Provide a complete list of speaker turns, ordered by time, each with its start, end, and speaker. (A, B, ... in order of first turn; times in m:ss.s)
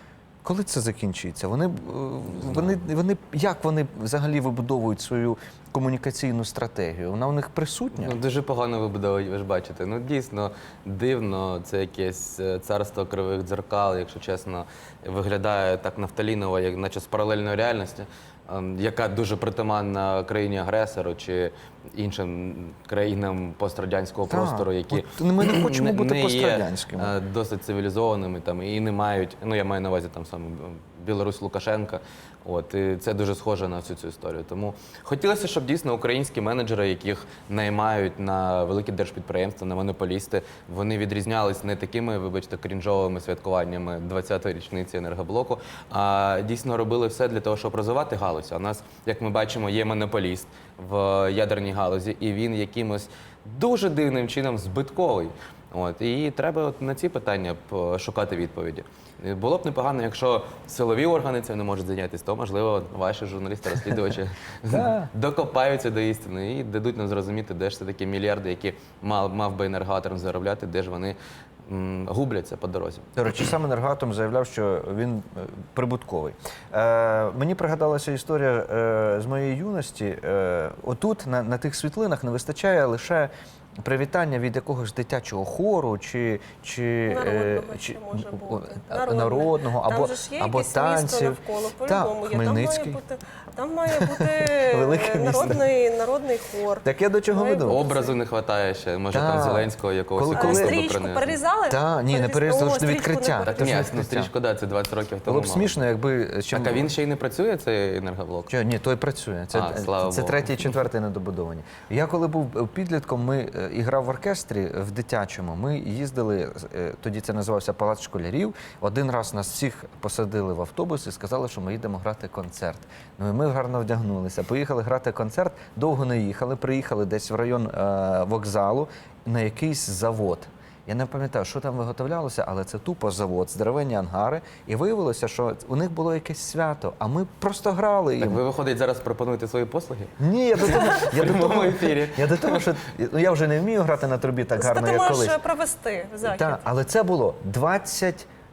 0:00.4-0:08.2 A
0:08.0-1:13.1 B
0:24.3-0:27.1 A
1:04.7-1:05.1 A
1:13.2-1:23.3 A
1:23.8-1:33.0 A
1:27.1-1:38.2 C
1:33.9-1:35.6 A
1:36.8-1:37.8 A
1:37.7-1:41.4 B
1:39.1-1:40.9 A
1:40.3-1:43.9 C
1:41.7-1:44.3 A
1:43.4-1:45.8 B
1:45.2-1:46.9 A
1:46.5-1:48.5 B
1:48.5-2:18.4 A
1:49.5-1:50.6 B
2:18.2-2:22.7 B
2:20.2-2:25.4 A
2:24.6-2:26.6 C
2:26.2-2:28.3 A